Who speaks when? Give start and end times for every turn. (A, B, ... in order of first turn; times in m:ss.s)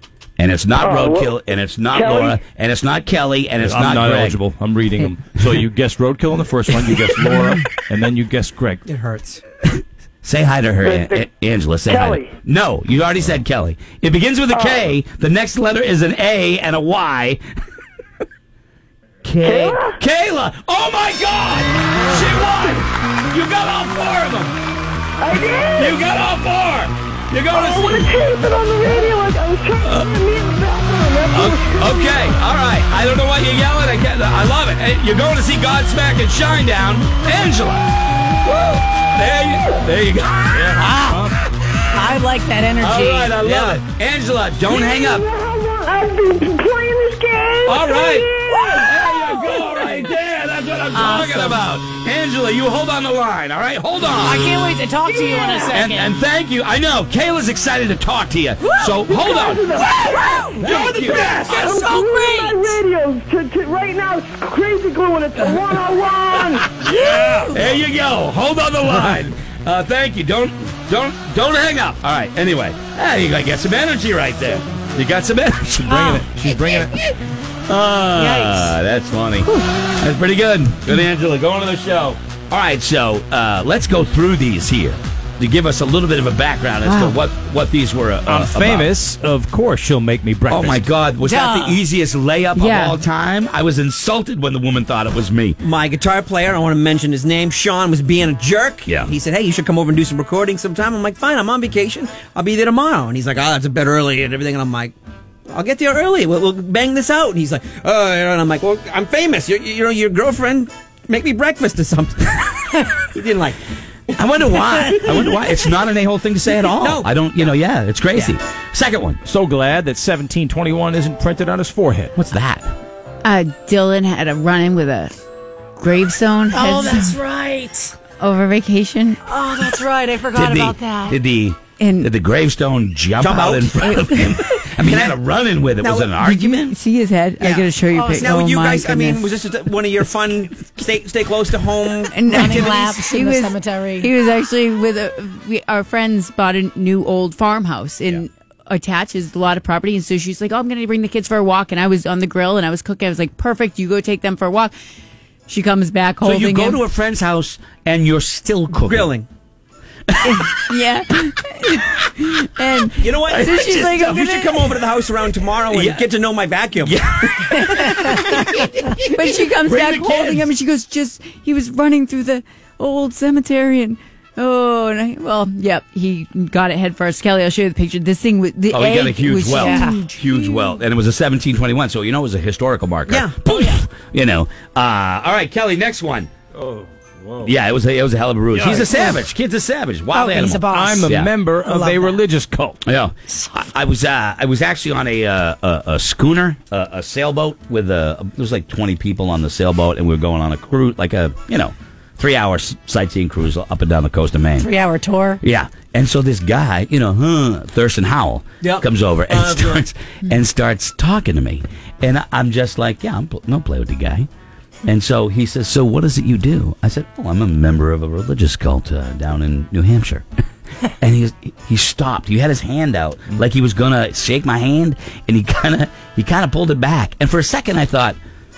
0:00.4-0:04.4 A
0:00.8-0:01.4 B
0:01.9-0:02.4 B
0:03.6-0:08.8 C
0:08.9-0:09.4 D
0:09.6-0:17.4 A
0:10.8-0:11.2 B
0:11.9-0:12.3 B
0:19.2-0:24.5 A
0:19.4-0:19.9 B
0:25.2-0:26.0 B
0:25.7-0:28.2 A
0:27.5-0:32.1 B
0:29.8-0:30.1 A
0:31.3-0:37.9 A
0:38.4-0:40.9 A
0:40.6-0:41.4 C
0:40.8-0:41.3 E
0:41.9-0:43.4 E
0:42.8-0:45.2 A
0:43.4-0:43.8 D
0:44.7-0:49.4 B
0:47.6-0:54.5 A
0:48.5-0:48.8 E
0:50.9-0:51.6 E
0:54.1-0:56.1 E
0:55.0-0:55.8 B
0:55.7-1:01.7 A
0:58.6-0:58.9 E
0:58.9-1:06.8 B
1:00.3-1:02.8 E
1:05.4-1:05.7 A
1:06.4-1:16.2 A
1:07.1-1:07.4 E
1:07.3-1:07.7 C
1:15.8-1:16.9 C
1:16.0-1:16.3 E
1:17.7-1:28.9 A
1:18.1-1:18.7 E
1:26.8-1:27.1 F
1:28.3-1:30.9 C
1:30.5-1:35.6 A
1:31.2-1:31.8 E
1:32.6-1:32.9 F
1:35.6-1:44.9 D
1:38.8-1:39.1 A
1:45.5-1:53.6 D
1:54.1-1:55.3 D
1:54.2-1:59.2 A
1:56.7-1:57.5 D
1:59.2-2:02.1 C
2:02.1-2:02.7 A
2:03.2-2:05.2 F
2:05.8-2:07.1 F
2:06.5-2:08.0 E
2:08.2-2:09.2 F
2:09.2-2:11.2 E
2:10.3-2:16.8 A
2:11.8-2:12.1 F
2:13.2-2:16.7 D
2:16.3-2:19.2 F
2:17.4-2:22.7 D
2:17.9-2:18.4 E
2:22.1-2:34.7 F
2:22.2-2:24.1 E
2:35.5-2:36.8 F
2:36.2-2:39.1 A
2:38.7-2:39.2 D
2:40.2-2:40.6 A
2:40.2-2:44.8 F
2:43.0-2:47.6 D
2:43.3-2:43.6 A
2:45.7-2:46.1 A
2:46.8-2:50.5 A
2:47.8-2:48.4 F
2:49.1-3:00.7 F
2:58.7-3:06.3 A
2:59.5-3:00.0 E
3:03.1-3:03.6 D
3:06.5-3:07.5 C
3:07.4-3:11.3 A
3:08.5-3:09.1 C
3:10.1-3:11.1 E
3:10.6-3:12.8 C
3:11.6-3:12.2 E
3:12.8-3:24.7 A
3:24.6-3:25.4 E
3:25.4-3:34.3 A
3:28.6-3:29.8 D
3:34.8-3:40.2 A
3:40.9-3:48.2 A